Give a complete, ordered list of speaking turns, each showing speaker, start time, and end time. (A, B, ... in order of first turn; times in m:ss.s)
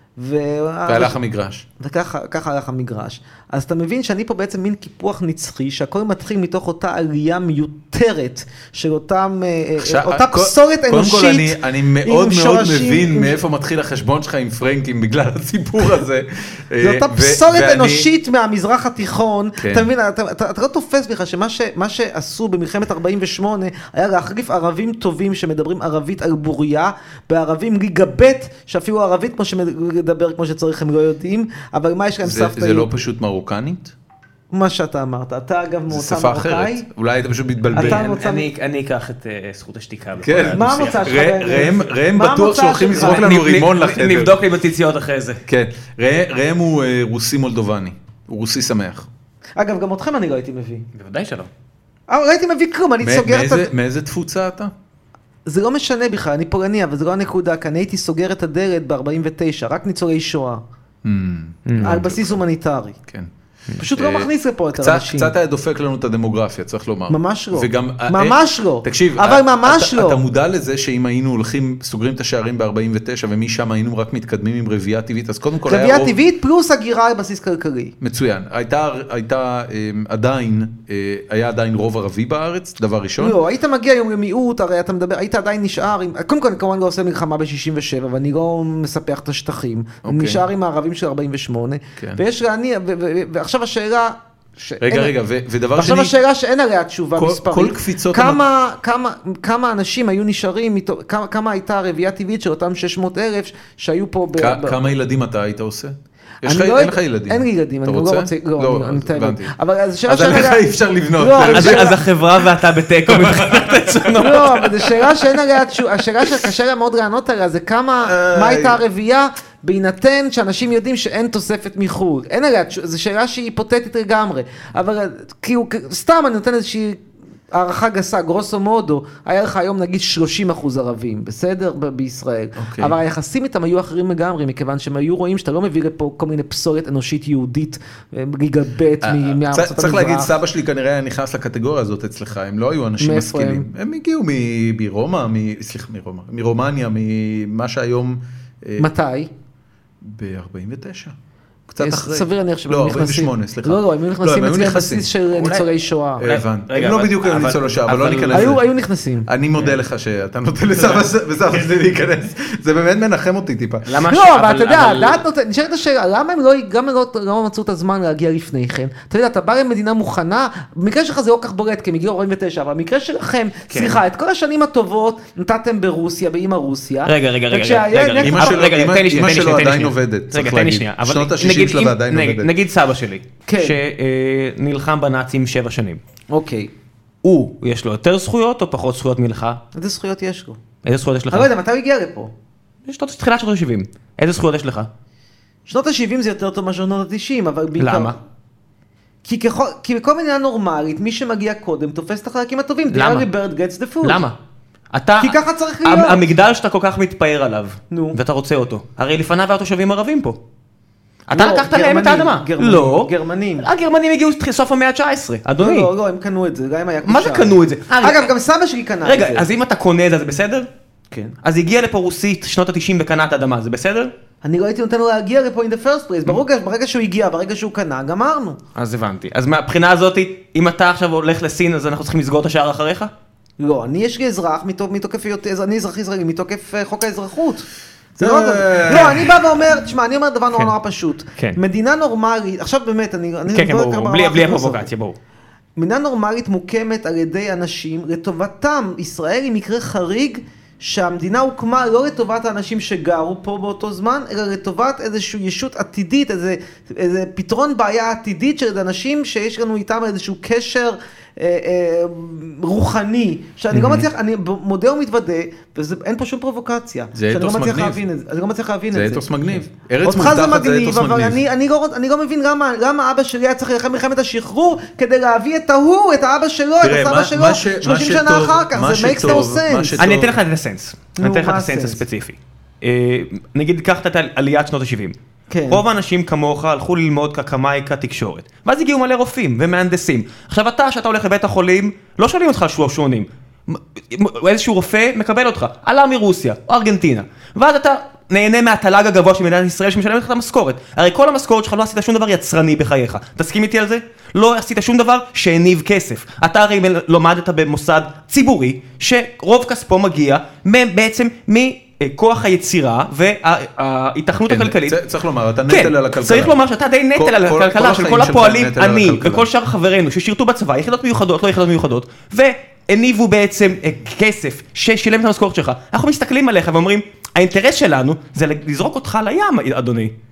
0:00.2-0:01.2 A
0:00.8-0:01.6 B
0:01.8-0:13.4 A
0:09.8-0:18.1 B
0:16.8-0:32.9 A
0:19.6-0:19.9 B
0:32.2-0:33.9 B
0:34.5-0:36.8 A
0:35.9-0:38.0 B
0:37.7-0:38.5 A
0:37.7-0:41.0 C
0:40.2-0:44.4 B
0:40.5-0:43.3 A
0:42.9-0:45.4 C
0:45.4-0:49.1 B
0:49.6-0:50.9 A
0:50.9-0:51.5 C
0:52.1-0:53.7 A
0:53.0-0:54.7 B
0:55.5-1:00.6 A
1:01.0-1:02.4 B
1:01.6-1:01.9 C
1:01.8-1:03.0 A
1:03.8-1:05.3 A
1:03.9-1:16.2 B
1:07.1-1:10.2 A
1:15.6-1:17.9 A
1:18.0-1:23.4 B
1:23.2-1:35.1 A
1:30.0-1:30.4 B
1:34.8-1:36.1 B
1:35.7-1:44.9 A
1:37.2-1:38.4 B
1:44.4-1:49.5 B
1:46.4-1:52.0 A
1:50.0-1:54.4 B
1:51.5-1:55.0 C
1:54.2-2:20.3 A
1:58.0-1:58.8 B
2:12.6-2:12.9 B
2:19.0-2:28.9 B
2:23.0-2:23.7 A
2:28.8-2:29.3 A
2:30.0-2:31.1 B
2:31.7-2:35.1 B
2:31.8-2:36.3 A
2:35.3-2:35.7 C
2:36.2-2:38.6 C
2:36.2-2:38.6 B
2:38.3-2:39.3 A
2:39.3-2:43.8 B
2:43.8-2:45.2 C
2:44.1-2:58.6 A
2:53.7-2:54.0 C
2:57.0-3:06.0 C
2:58.2-3:02.5 B
3:03.5-3:03.8 A
3:06.3-3:06.7 A
3:07.2-3:09.6 C
3:09.7-3:10.6 A
3:10.8-3:11.5 C
3:11.3-3:12.3 A
3:12.8-3:14.9 C
3:15.7-3:18.2 A
3:17.8-3:18.2 C
3:19.2-3:24.2 A
3:22.9-3:23.3 C
3:24.0-3:24.4 C
3:24.9-3:30.4 C
3:25.2-3:26.2 A
3:27.9-3:28.2 A
3:31.3-3:35.9 C
3:31.3-3:33.7 A
3:35.6-3:39.5 A
3:37.0-3:38.3 C
3:39.0-3:40.7 C
3:41.4-3:44.1 C
3:44.4-3:48.6 A
3:48.7-3:53.1 C
3:53.6-4:04.9 A
3:58.2-3:59.3 B
4:03.5-4:05.2 C
4:05.8-4:29.3 A
4:23.7-4:24.0 C
4:27.1-4:28.0 B
4:28.9-4:31.4 B
4:30.0-4:40.0 A
4:36.8-4:40.4 B
4:40.0-4:45.1 C
4:41.2-4:42.0 A
4:45.5-4:45.8 A
4:45.7-5:15.0 C
5:14.4-5:16.6 B
5:15.7-5:30.1 C
5:17.1-5:19.5 B